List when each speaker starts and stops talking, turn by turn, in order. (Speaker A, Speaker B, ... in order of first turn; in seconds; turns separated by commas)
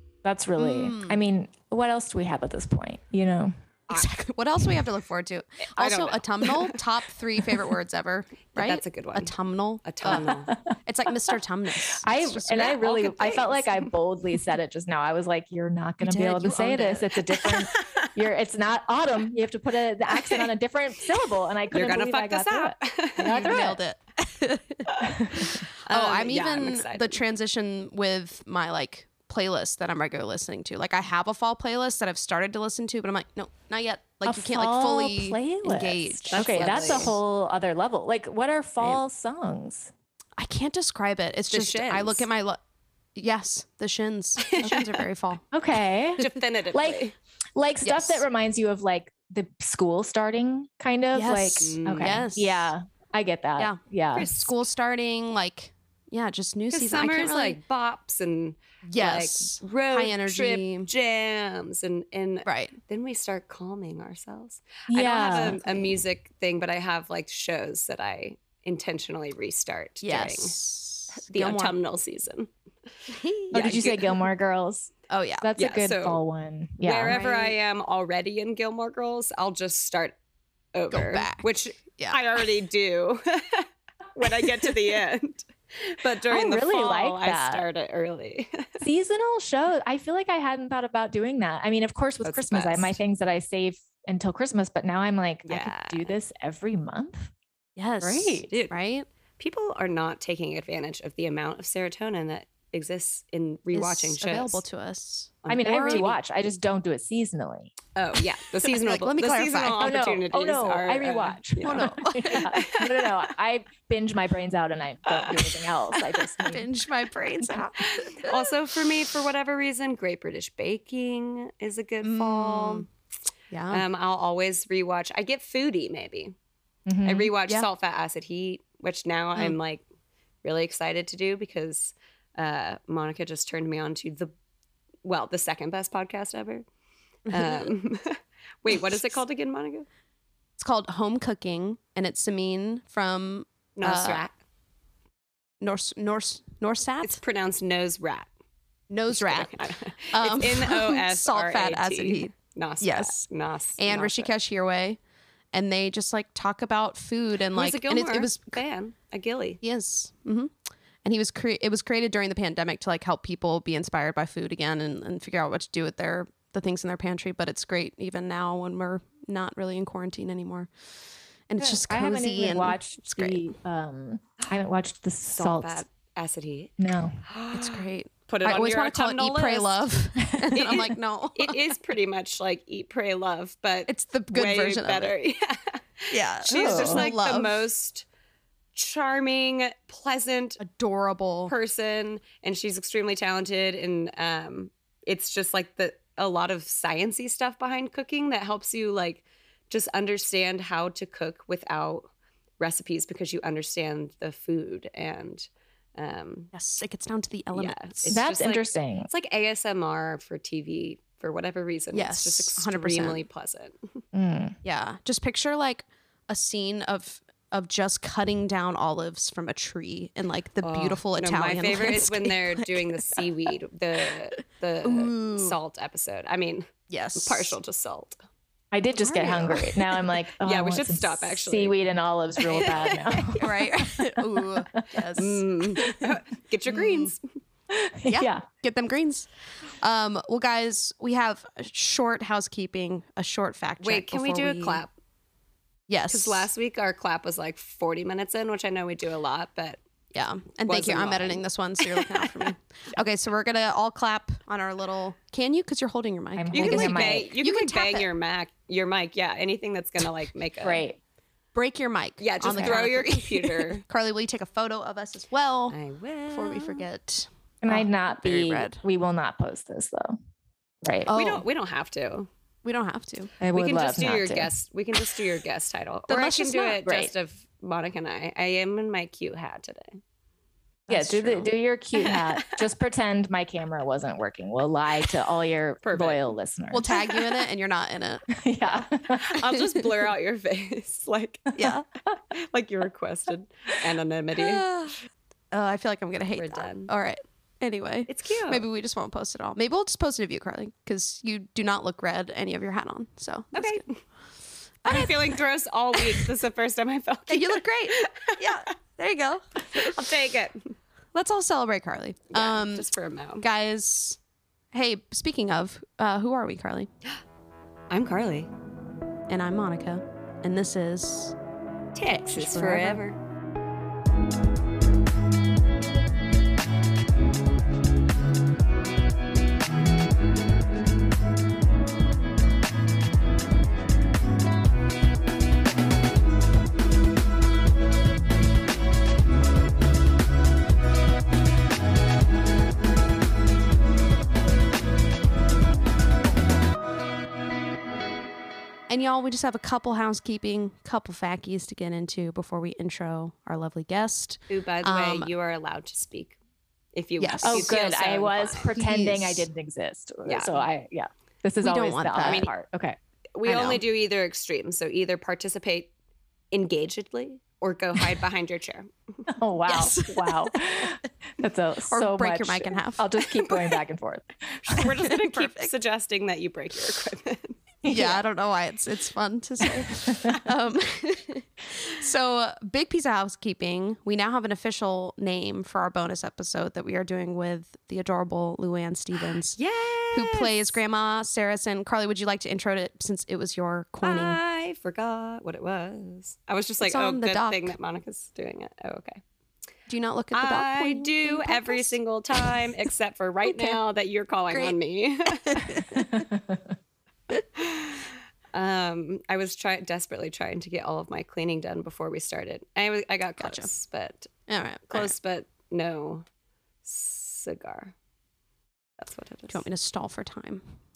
Speaker A: 0.2-3.5, Speaker B: 0.6-1.2, Speaker B: 3.9-10.3, Speaker C: 5.8-6.8, Speaker C: 8.5-9.3, Speaker C: 9.8-10.5, Speaker A: 10.0-10.7, Speaker B: 10.8-12.5, Speaker A: 12.0-23.8, Speaker C: 12.2-13.9, Speaker B: 16.0-17.1, Speaker C: 21.7-23.5, Speaker B: 23.3-37.1, Speaker A: 25.0-25.5, Speaker C: 25.9-27.2, Speaker A: 34.2-39.9, Speaker C: 36.3-37.2, Speaker B: 40.4-42.6, Speaker C: 41.5-42.3, Speaker B: 43.1-45.4, Speaker C: 44.4-45.0, Speaker A: 45.5-54.3, Speaker C: 46.2-47.1, Speaker B: 47.8-48.2, Speaker B: 51.1-52.7, Speaker C: 51.6-52.2, Speaker C: 54.1-54.5, Speaker B: 54.3-57.6, Speaker C: 56.7-70.5, Speaker B: 58.9-60.9, Speaker B: 62.4-62.7, Speaker A: 64.9-66.0, Speaker B: 70.0-71.8, Speaker C: 71.2-72.5, Speaker B: 73.1-73.7, Speaker C: 73.5-74.2, Speaker A: 73.5-77.2, Speaker B: 75.1-75.5, Speaker C: 75.6-76.2, Speaker C: 76.8-80.2, Speaker B: 77.0-77.5, Speaker C: 80.7-88.8, Speaker B: 80.9-82.4, Speaker A: 86.3-87.6, Speaker A: 88.8-97.3, Speaker C: 92.2-93.0, Speaker C: 95.5-96.1, Speaker B: 97.8-99.0, Speaker A: 98.0-98.5, Speaker C: 99.4-104.6, Speaker B: 103.7-106.1, Speaker C: 105.4-106.1, Speaker A: 105.5-107.7, Speaker C: 108.0-111.9, Speaker B: 108.8-109.9, Speaker A: 109.8-116.7, Speaker B: 111.6-112.5, Speaker C: 112.5-113.1, Speaker B: 116.3-118.4, Speaker C: 118.1-122.9, Speaker B: 122.0-122.9, Speaker B: 123.5-123.8, Speaker C: 123.7-126.3, Speaker A: 126.9-127.3, Speaker C: 127.0-129.8, Speaker C: 130.4-134.3, Speaker C: 135.0-136.6, Speaker B: 137.3-137.7, Speaker C: 137.3-139.8, Speaker B: 140.6-144.3, Speaker C: 143.8-144.3, Speaker B: 145.6-147.2, Speaker C: 147.0-148.3, Speaker B: 148.9-153.2, Speaker C: 149.1-154.3, Speaker B: 153.8-155.0, Speaker B: 155.5-158.6, Speaker C: 157.5-159.6, Speaker B: 159.6-170.7, Speaker B: 171.5-173.5, Speaker A: 171.6-175.8, Speaker C: 175.3-179.9, Speaker A: 176.8-177.2, Speaker B: 177.5-181.6, Speaker C: 180.5-188.0, Speaker B: 183.9-185.1, Speaker B: 186.1-187.6, Speaker A: 186.5-187.1, Speaker C: 188.7-190.6, Speaker B: 190.6-191.5, Speaker C: 191.5-206.5, Speaker B: 206.5-208.1, Speaker C: 207.5-214.0, Speaker A: 208.1-209.1, Speaker B: 211.9-213.2, Speaker A: 214.1-214.6, Speaker B: 214.6-223.2, Speaker C: 220.6-228.2, Speaker B: 224.4-225.6, Speaker B: 226.9-227.6, Speaker A: 228.7-234.8, Speaker B: 229.0-229.8, Speaker C: 230.4-231.8, Speaker C: 232.4-233.3, Speaker B: 233.4-235.8, Speaker C: 235.2-237.2, Speaker A: 236.7-237.0, Speaker A: 237.7-238.4, Speaker B: 238.1-244.8, Speaker C: 243.8-244.9, Speaker B: 245.9-246.5, Speaker C: 246.1-249.8, Speaker B: 250.1-258.1, Speaker C: 250.7-252.3, Speaker A: 256.4-257.3, Speaker C: 256.5-260.8, Speaker A: 260.6-261.0, Speaker B: 261.5-265.8, Speaker C: 262.2-263.8, Speaker A: 262.5-262.8, Speaker C: 265.7-266.8, Speaker B: 266.3-268.8, Speaker A: 267.6-270.2, Speaker A: 270.8-271.1, Speaker B: 271.1-271.4, Speaker C: 271.1-272.3, Speaker B: 272.6-273.3, Speaker A: 273.4-274.5, Speaker C: 273.5-280.0, Speaker B: 276.1-276.9, Speaker A: 280.9-286.9, Speaker B: 280.9-281.3, Speaker C: 282.0-282.6, Speaker C: 285.8-286.3, Speaker B: 286.7-288.2, Speaker A: 288.3-289.3, Speaker C: 289.3-291.5, Speaker B: 291.6-291.8, Speaker C: 292.3-294.7, Speaker B: 294.4-295.0, Speaker B: 295.5-303.8, Speaker C: 296.4-296.9, Speaker C: 298.1-298.6, Speaker C: 303.5-304.0, Speaker B: 304.9-305.4, Speaker C: 304.9-308.4, Speaker B: 307.3-309.9, Speaker C: 309.7-310.6, Speaker B: 311.1-312.9, Speaker C: 312.3-313.4, Speaker B: 313.4-314.2, Speaker B: 314.7-316.9, Speaker C: 317.9-318.5, Speaker B: 319.3-321.3, Speaker C: 321.9-323.2, Speaker B: 322.2-323.0, Speaker B: 348.9-355.3, Speaker C: 354.5-356.4, Speaker C: 356.9-358.7, Speaker B: 357.2-357.7, Speaker A: 357.4-363.8, Speaker B: 358.8-359.4, Speaker C: 360.2-360.6, Speaker B: 361.6-362.5, Speaker C: 362.2-362.5, Speaker C: 363.3-365.9, Speaker C: 366.5-368.9, Speaker A: 369.3-374.3, Speaker B: 369.7-370.6, Speaker B: 371.9-373.5, Speaker C: 374.6-377.6, Speaker B: 374.8-375.7, Speaker A: 377.8-378.2, Speaker B: 377.9-389.6, Speaker C: 389.6-390.8, Speaker B: 390.1-394.4, Speaker C: 394.0-399.2, Speaker B: 396.8-397.8, Speaker B: 399.9-402.0, Speaker C: 400.3-405.7, Speaker B: 403.4-403.8, Speaker B: 404.5-404.8, Speaker B: 405.5-406.2, Speaker C: 407.6-414.3, Speaker B: 413.4-413.7, Speaker B: 414.5-415.1, Speaker C: 414.9-416.2, Speaker C: 416.8-417.9, Speaker C: 419.0-419.6, Speaker B: 419.5-420.6